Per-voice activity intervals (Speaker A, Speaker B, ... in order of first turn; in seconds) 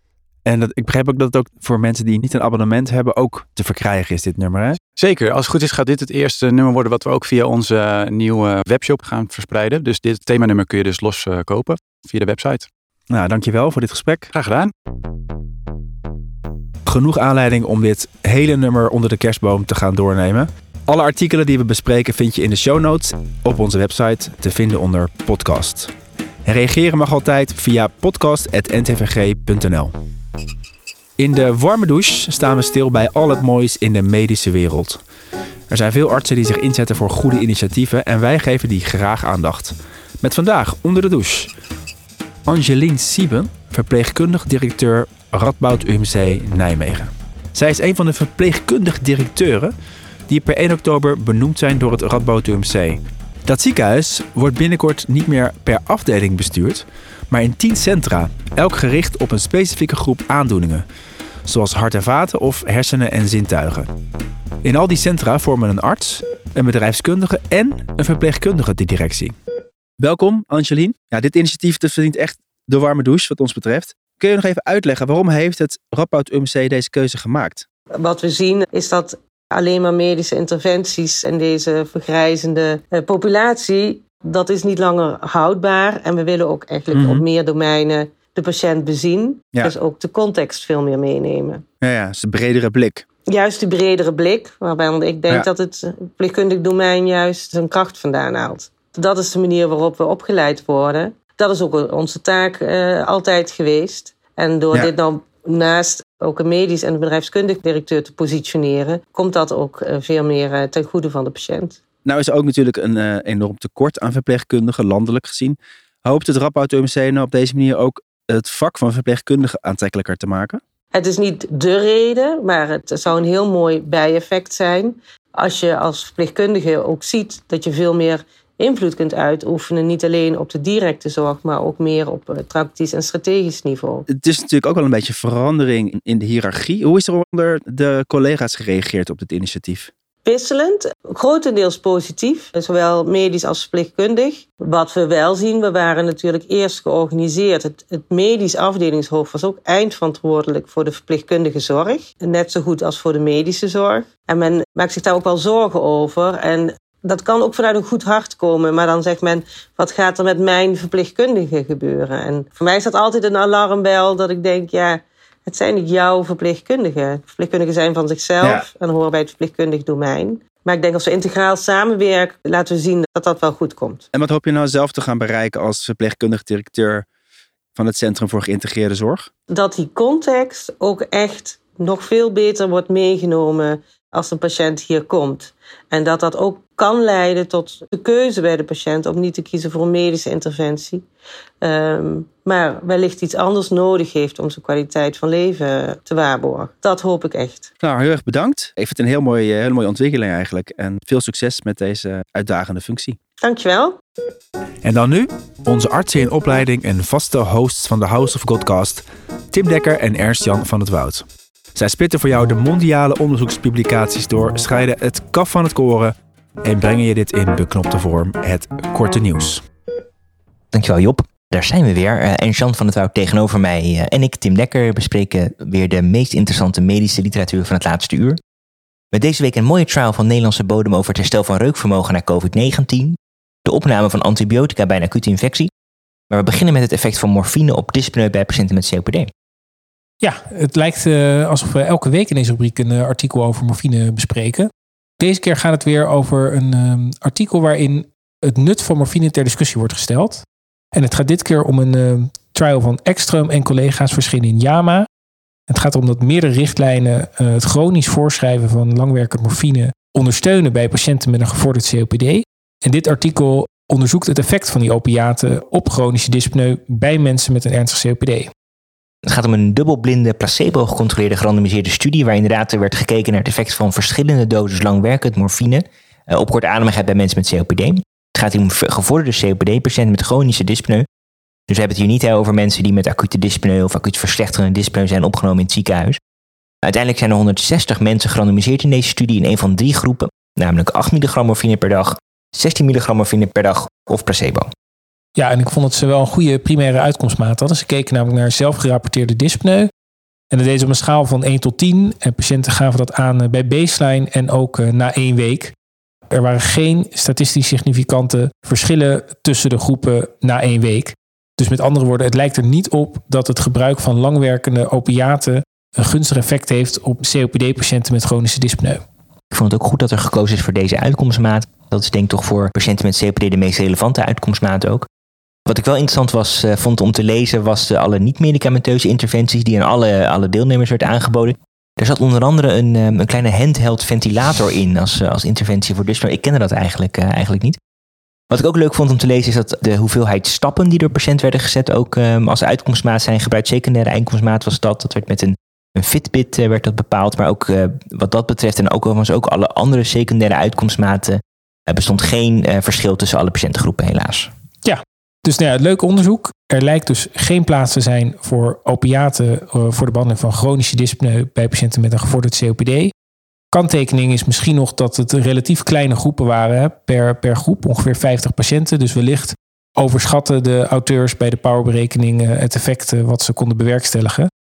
Speaker A: 0.4-4.8, 13.1-14.3, 16.9-25.9, 26.4-29.9, 31.2-35.0, 35.7-41.5, 42.5-49.7, 50.3-60.8, 61.5-63.9, 64.6-69.3, 70.0-77.6, 86.9-87.2, 91.8-93.0, 112.0-120.6, 134.1-139.9, 168.4-168.7, 174.1-177.1, 177.7-179.3, 197.8-203.2, 204.8-219.6
Speaker B: 5.0-12.7, 14.3-14.7
Speaker C: 78.0-91.6, 93.3-111.8, 120.9-134.1, 140.2-174.0, 179.5-191.1, 191.6-197.7, 203.4-204.0
Speaker D: 220.7-228.4, 229.1-235.7, 236.3-239.3, 269.3-281.0, 281.7-286.2, 286.8-294.7, 319.5-325.1, 325.6-337.8, 338.5-354.5
Speaker E: 240.2-255.1, 255.7-268.5, 295.4-299.9, 300.5-305.7, 306.3-319.0, 354.8-363.1, 363.7-374.5